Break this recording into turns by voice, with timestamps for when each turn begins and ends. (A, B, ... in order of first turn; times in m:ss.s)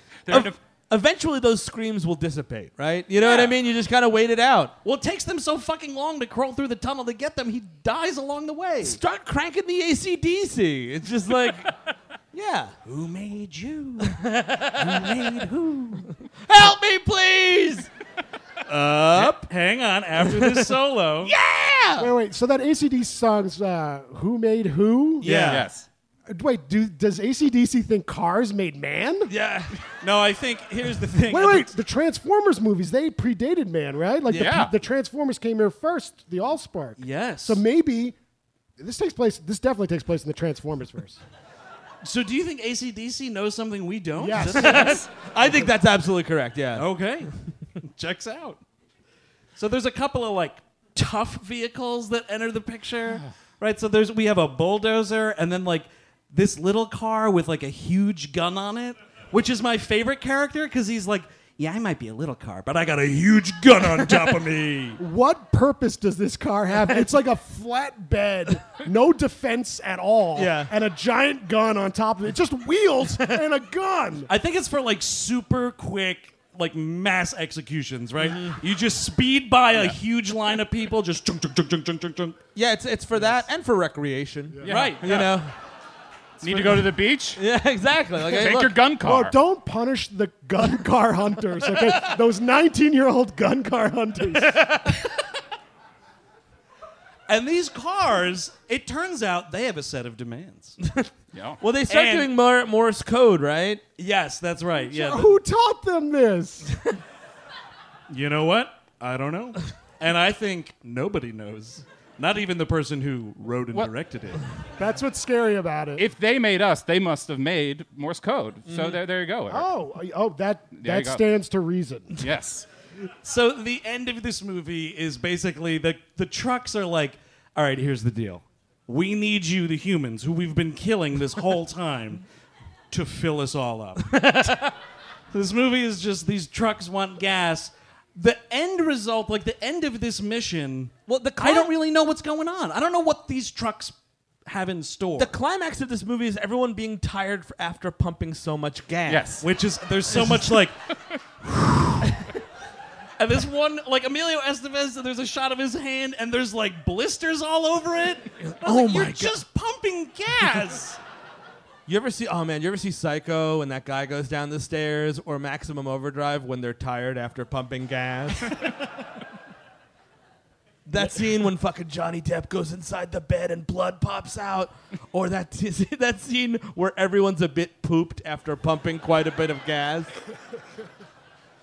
0:00.3-0:04.7 A
0:03.2-0:03.6 B
0:04.8-0:09.0 B
0:08.8-0:11.7 A
0:12.3-0:12.7 A
0:12.8-0:14.2 B
0:14.1-0:15.5 A
0:14.8-0:16.0 B
0:16.4-0:17.9 A
0:18.7-0:19.5 A
0:19.1-0:21.3 B
0:20.2-0:20.7 A
0:21.2-0:22.1 A
0:22.0-0:25.6 C
0:25.2-0:25.7 A
0:25.3-0:25.9 D
0:26.3-0:29.3 C
0:29.3-0:29.8 A
0:30.0-0:31.7 B
0:31.3-0:38.1 C
0:34.4-0:34.7 D
0:37.0-0:37.6 B
0:38.8-0:41.2 C
0:42.0-0:45.1 B
0:44.2-0:45.1 C
0:44.4-0:46.8 A
0:46.7-0:48.6 B
0:49.6-1:05.0 B
1:05.0-1:14.3 C
1:10.3-1:10.7 A
1:14.3-1:22.4 B
1:18.2-1:18.6 A
1:22.5-1:25.5 A
1:24.5-1:24.9 C
1:24.6-1:25.3 D
1:24.7-1:25.3 B
1:26.4-1:26.8 B
1:26.4-1:27.4 D
1:27.4-1:28.9 A
1:28.2-1:29.4 D
1:29.0-1:34.9 C
1:34.3-1:35.0 A
1:37.3-1:40.8 B
1:41.3-1:41.6 D
1:41.6-1:43.8 A
1:41.9-1:42.3 B
1:44.0-1:45.4 B
1:44.8-1:46.7 C
1:48.1-1:54.4 B
1:54.8-1:56.1 C
1:56.0-1:59.7 D
1:58.7-1:59.0 A
1:59.5-2:02.2 C
2:00.7-2:01.2 D
2:02.2-2:02.6 D
2:03.2-2:12.2 B
2:12.9-2:14.5 B
2:14.1-2:14.7 A
2:15.3-2:23.9 B
2:21.1-2:21.7 A
2:24.4-2:25.3 B
2:25.2-2:29.4 A
2:29.1-2:29.4 D
2:29.4-2:30.8 B
2:31.4-2:32.1 B
2:33.2-2:41.0 B
2:38.4-2:39.4 A
2:41.9-2:48.6 A
2:50.9-3:00.1 A